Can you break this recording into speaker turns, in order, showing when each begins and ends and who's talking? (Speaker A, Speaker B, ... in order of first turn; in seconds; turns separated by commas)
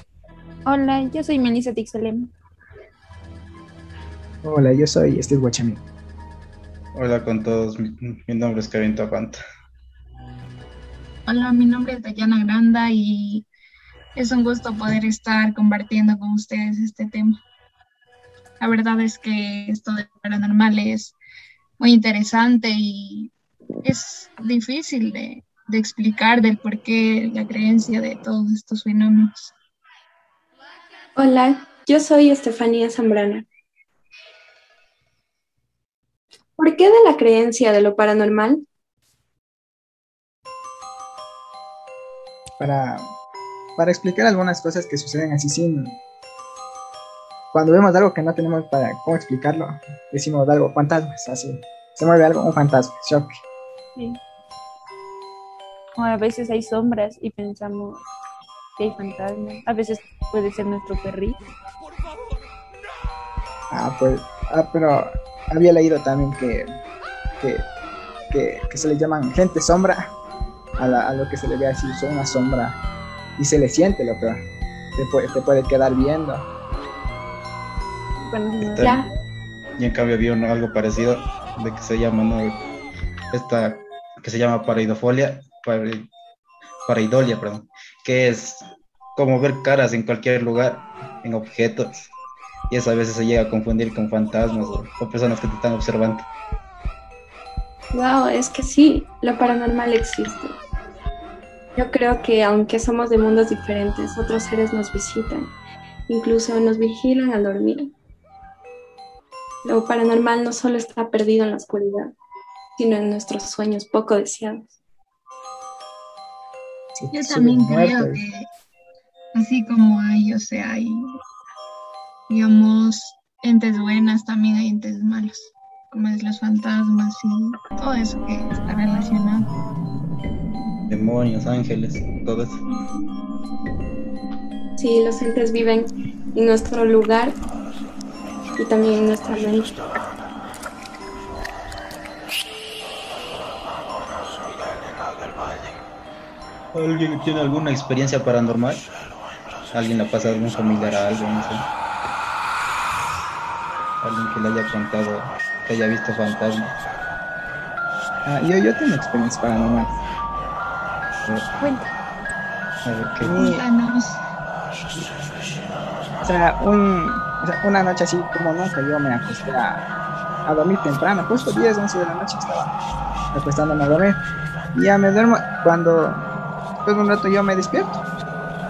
Speaker A: 0.7-2.3, Speaker B: 4.4-5.8, Speaker C: 6.9-9.4, Speaker D: 11.2-13.5, Speaker D: 14.2-17.4, Speaker D: 18.6-21.2, Speaker D: 21.8-23.3, Speaker D: 23.8-29.5, Speaker E: 31.2-33.5, Speaker E: 36.6-38.6, Speaker B: 42.6-43.0, Speaker B: 43.8-46.0, Speaker B: 47.5-53.4, Speaker A: 56.0-58.0, Speaker A: 58.8-61.4, Speaker B: 63.7-66.7, Speaker B: 67.4-67.7, Speaker B: 68.3-70.1, Speaker B: 70.8-72.8, Speaker B: 73.4-74.4, Speaker B: 75.0-76.5, Speaker A: 78.3-79.1, Speaker C: 78.6-79.0, Speaker E: 78.8-79.1, Speaker C: 79.8-82.6, Speaker C: 83.3-86.1, Speaker C: 86.8-92.1, Speaker C: 92.7-96.3, Speaker E: 97.9-100.6, Speaker E: 101.7-105.5, Speaker E: 106.1-107.9, Speaker E: 109.6-112.1, Speaker E: 112.8-114.7, Speaker B: 117.0-118.2, Speaker D: 117.1-118.5, Speaker D: 119.3-121.1, Speaker D: 122.3-129.5, Speaker C: 130.9-132.6, Speaker E: 134.8-137.4, Speaker E: 138.6-139.8, Speaker C: 146.7-148.9, Speaker C: 149.7-151.7, Speaker C: 154.0-156.7, Speaker B: 158.2-159.9, Speaker C: 161.2-161.5, Speaker A: 161.6-161.9, Speaker C: 162.8-163.3, Speaker B: 163.3-163.6, Speaker D: 163.3-164.2, Speaker B: 166.2-169.8, Speaker B: 170.4-172.7, Speaker B: 173.3-174.2, Speaker B: 174.7-176.2, Speaker B: 176.8-178.0